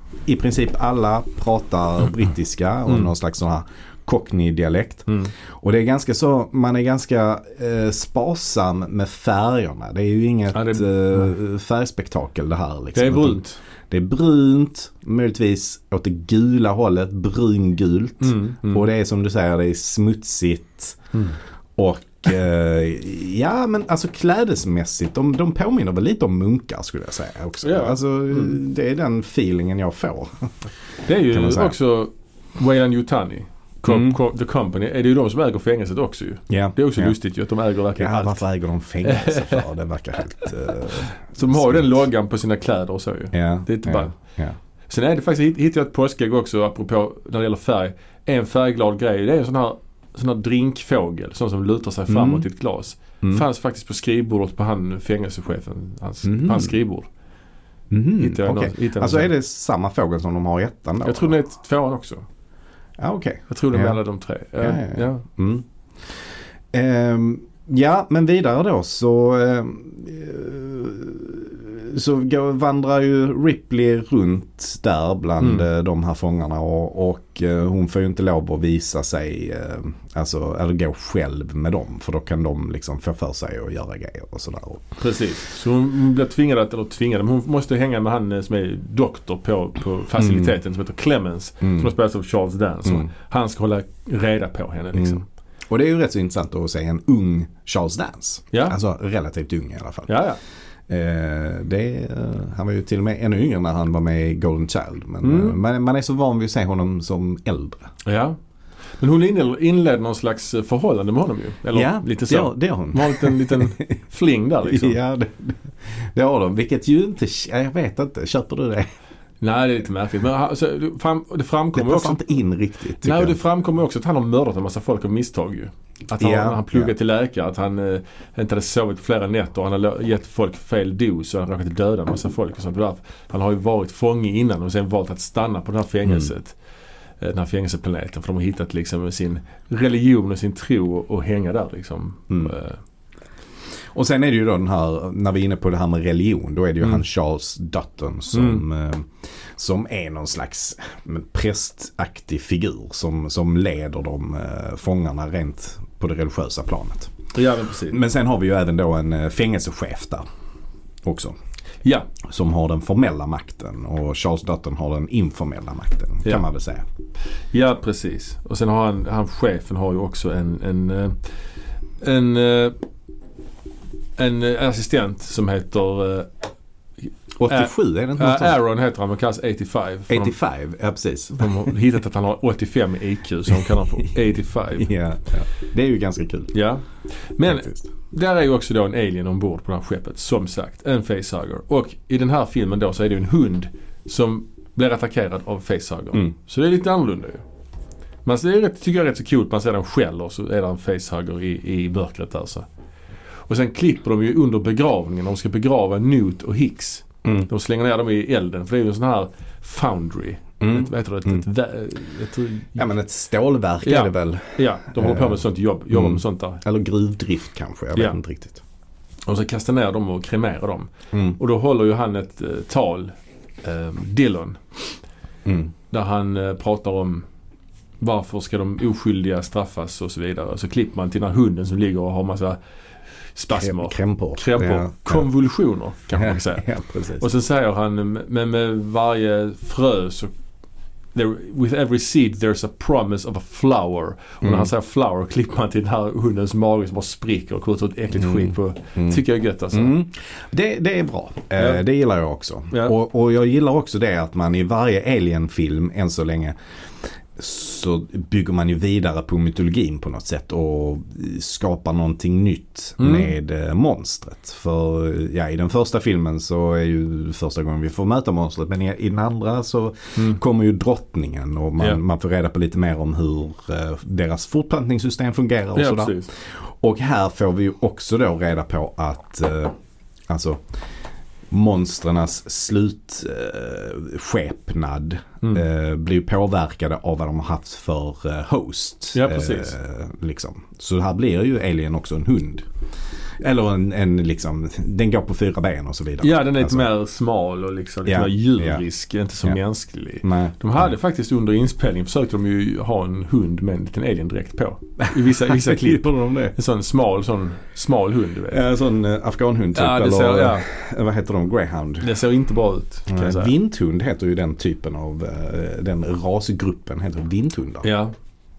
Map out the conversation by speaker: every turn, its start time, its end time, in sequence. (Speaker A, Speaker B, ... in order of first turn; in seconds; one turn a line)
Speaker A: 0.3-21.0
Speaker B: 10.5-11.3
Speaker B: 12.9-13.6
Speaker B: 18.2-18.9
Speaker A: 21.8-30.5
Speaker B: 27.6-28.5
Speaker B: 31.1-38.4
Speaker A: 31.3-31.7
Speaker A: 33.9-34.2
Speaker A: 36.5-37.1
Speaker A: 38.0-42.0
Speaker B: 39.0-39.6
Speaker B: 41.3-44.1
Speaker A: 43.3-44.6
Speaker B: 44.9-57.1
Speaker A: 52.1-52.5
Speaker A: 56.2-56.8
Speaker A: 57.9-61.3
Speaker B: 58.2-59.3
Speaker B: 61.0-62.2
Speaker A: 63.0-64.0
Speaker B: 63.5-65.2
Speaker A: 64.6-65.7
Speaker A: 66.7-84.9
Speaker B: 75.4-75.7
Speaker B: 85.0-95.2
Speaker A: 90.2-90.6
Speaker A: 91.6-91.9
Speaker A: 95.7-100.1
Speaker B: 98.5-98.8
Speaker B: 100.1-100.4
Speaker A: 100.9-107.9
Speaker B: 105.2-105.6
Speaker B: 108.0-108.4
Speaker B: 109.0-115.0
Speaker A: 111.7-113.8
Speaker A: 114.6-118.9
Speaker B: 119.4-122.2
Speaker A: 121.7-123.4
Speaker B: 123.0-136.6
Speaker A: 126.2-126.9
Speaker B: 137.2-142.8
Speaker A: 143.9-157.1
Speaker B: 148.3-148.6
Speaker B: 157.3-158.0
Speaker A: 157.9-160.2
Speaker A: 161.0-161.3
Speaker B: 161.8-162.1
Speaker A: 162.2-166.8
Speaker B: 167.5-171.2
Speaker B: 172.0-172.8
Speaker B: 174.2-176.3
Speaker B: 177.0-180.3
Speaker A: 177.4-178.6
Speaker A: 180.1-181.7
Speaker B: 181.3-184.9
Speaker A: 184.8-186.5
Speaker B: 186.5-197.4
Speaker A: 187.4-187.9
Speaker B: 198.2-202.7
Speaker B: 203.5-212.8
Speaker A: 210.6-211.4
Speaker A: 212.8-218.6
Speaker B: 213.8-216.6
Speaker B: 219.3-224.6
Speaker A: 221.1-221.4
Speaker A: 225.4-225.7
Speaker B: 225.9-227.2
Speaker B: 228.0-232.6
Speaker B: 233.3-240.3
Speaker A: 233.5-235.3
Speaker A: 236.1-237.3
Speaker B: 241.2-249.9
Speaker A: 244.4-244.7
Speaker A: 248.2-249.2
Speaker A: 249.7-279.7
Speaker B: 263.0-263.3
Speaker B: 275.8-276.3
Speaker A: 280.3-280.6
Speaker A: 281.5-292.7
Speaker B: 289.1-289.8
Speaker A: 293.4-296.9
Speaker B: 296.2-308.6
Speaker A: 298.1-298.8
Speaker A: 300.2-300.6
Speaker A: 305.1-306.5
Speaker A: 308.5-312.1
Speaker B: 309.8-310.7
Speaker B: 312.0-313.5
Speaker A: 313.1-317.9
Speaker B: 317.8-318.1